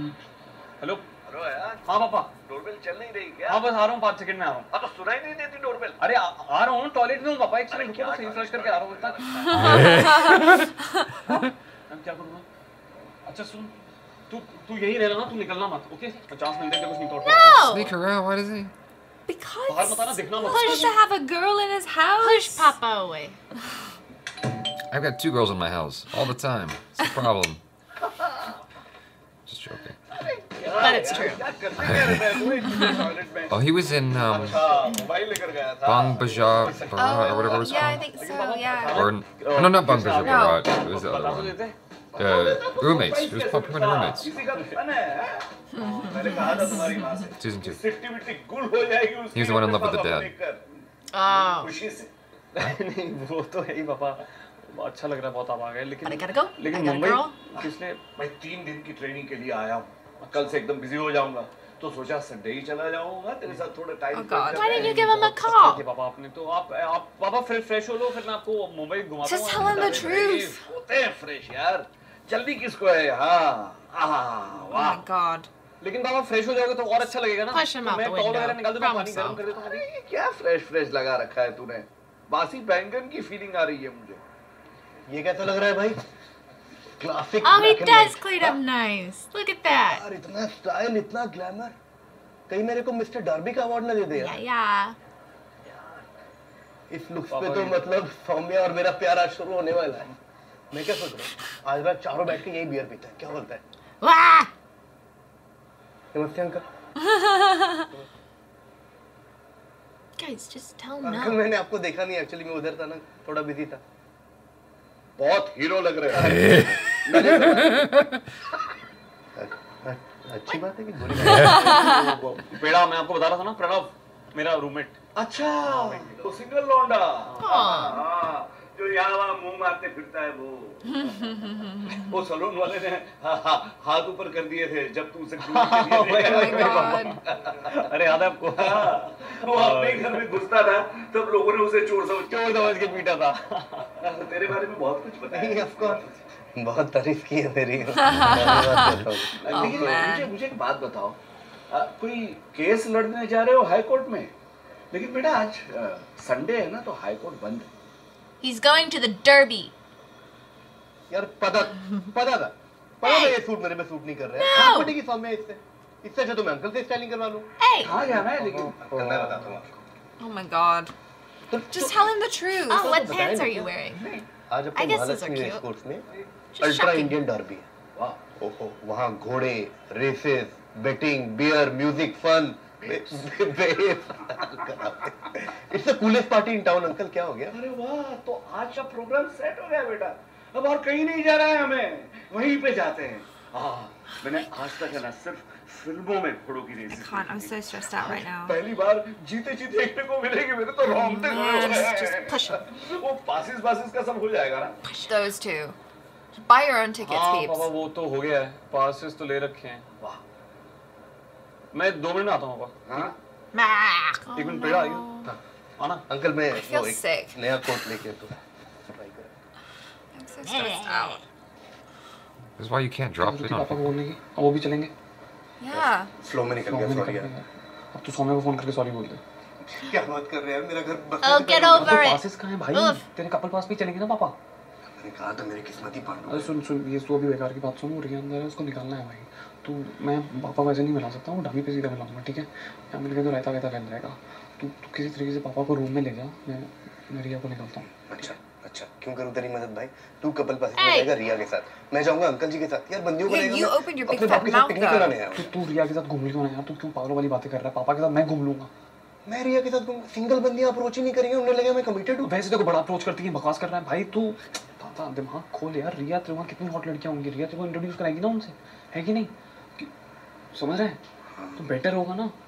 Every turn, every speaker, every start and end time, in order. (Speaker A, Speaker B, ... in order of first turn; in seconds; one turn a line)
Speaker A: 0.8-1.1
Speaker B: 1.3-3.7
Speaker A: 1.9-2.3
Speaker A: 3.5-4.7
Speaker B: 4.7-6.0
Speaker A: 6.0-10.5
Speaker B: 7.7-10.3
Speaker C: 9.5-11.1
Speaker D: 9.5-10.7
Speaker A: 11.3-12.5
Speaker A: 13.3-13.7
Speaker A: 14.3-17.9
Speaker E: 17.2-18.0
Speaker D: 17.5-18.7
Speaker C: 19.3-22.7
Speaker A: 19.7-20.9
Speaker E: 20.4-20.9
Speaker E: 22.2-23.4
Speaker D: 24.9-27.6
Speaker D: 29.5-30.0
Speaker B: 30.2-37.9
Speaker E: 30.7-31.4
Speaker D: 31.8-32.4
Speaker D: 33.5-34.7
Speaker D: 35.9-38.1
Speaker C: 37.0-39.1
Speaker A: 38.2-41.8
Speaker D: 38.8-41.6
Speaker C: 40.2-40.6
Speaker B: 42.1-50.6
Speaker D: 42.2-44.3
Speaker E: 45.8-47.3
Speaker D: 47.4-47.8
Speaker D: 49.3-50.3
Speaker E: 51.1-51.8
Speaker B: 51.3-52.1
Speaker A: 52.6-58.0
Speaker E: 56.0-57.4
Speaker B: 57.5-65.5
Speaker A: 60.2-60.5
Speaker C: 64.1-64.9
Speaker E: 64.5-65.8
Speaker A: 64.7-70.3
Speaker C: 69.2-70.6
Speaker B: 69.6-75.0
Speaker C: 74.7-75.5
Speaker A: 75.8-79.5
Speaker E: 77.5-79.5
Speaker B: 79.2-84.2
Speaker F: 85.1-86.0
Speaker F: 87.0-88.6
Speaker E: 87.4-90.0
Speaker F: 89.8-91.8
Speaker F: 92.5-94.4
Speaker E: 94.1-95.0
Speaker F: 96.9-100.1
Speaker A: 97.3-97.9
Speaker F: 100.7-103.6
Speaker E: 104.0-104.5
Speaker F: 106.1-106.6
Speaker C: 107.1-107.9
Speaker E: 110.2-111.4
Speaker F: 111.0-113.8
Speaker B: 115.2-117.7
Speaker F: 116.1-118.0
Speaker D: 116.2-118.1
Speaker F: 119.4-121.8
Speaker D: 121.2-121.6
Speaker A: 121.3-125.0
Speaker B: 121.5-122.5
Speaker B: 125.2-131.1
Speaker A: 125.6-126.2
Speaker A: 127.3-128.0
Speaker E: 127.4-128.0
Speaker C: 130.9-132.0
Speaker B: 131.8-137.9
Speaker A: 135.4-137.2
Speaker C: 136.3-137.1
Speaker E: 136.5-137.1
Speaker A: 137.8-140.3
Speaker B: 138.6-143.1
Speaker A: 142.3-143.9
Speaker B: 144.0-146.2
Speaker F: 145.3-146.0
Speaker F: 146.6-150.1
Speaker C: 147.9-150.3
Speaker B: 149.3-151.2
Speaker B: 151.7-154.3
Speaker B: 154.9-157.7
Speaker E: 158.4-159.7
Speaker F: 161.1-169.8
Speaker E: 163.0-163.4
Speaker E: 164.4-165.0
Speaker E: 167.6-168.0
Speaker B: 167.8-168.7
Speaker A: 167.8-169.5
Speaker C: 170.2-170.9
Speaker F: 171.5-172.1
Speaker C: 171.7-173.0
Speaker E: 172.7-174.2
Speaker B: 172.8-174.2
Speaker F: 172.8-173.7
Speaker F: 174.5-176.1
Speaker E: 174.8-175.6
Speaker E: 176.6-177.2
Speaker F: 176.6-177.7
Speaker B: 177.9-178.2
Speaker F: 178.4-187.6
Speaker B: 182.8-183.2
Speaker B: 187.5-204.8
Speaker C: 196.9-198.6
Speaker E: 200.9-202.7
Speaker E: 204.8-205.2
Speaker C: 205.1-205.8
Speaker C: 206.4-207.7
Speaker A: 207.0-209.8
Speaker A: 211.7-212.7
Speaker B: 212.9-213.1
Speaker E: 213.5-215.3
Speaker A: 214.3-215.1
Speaker F: 216.1-219.3
Speaker C: 216.5-217.4
Speaker C: 220.1-221.2
Speaker E: 220.4-221.2
Speaker D: 222.6-223.9
Speaker A: 223.2-224.9
Speaker C: 225.6-226.1
Speaker F: 225.7-227.3
Speaker A: 226.7-229.2
Speaker F: 229.6-232.2
Speaker E: 231.2-233.0
Speaker A: 231.7-234.4
Speaker F: 235.0-236.5
Speaker A: 236.3-247.9
Speaker F: 248.1-255.6
Speaker E: 250.8-251.1
Speaker C: 253.3-255.2
Speaker A: 255.3-258.7
Speaker F: 259.3-262.4
Speaker A: 262.2-269.3
Speaker A: 270.5-271.0
Speaker A: 271.6-272.3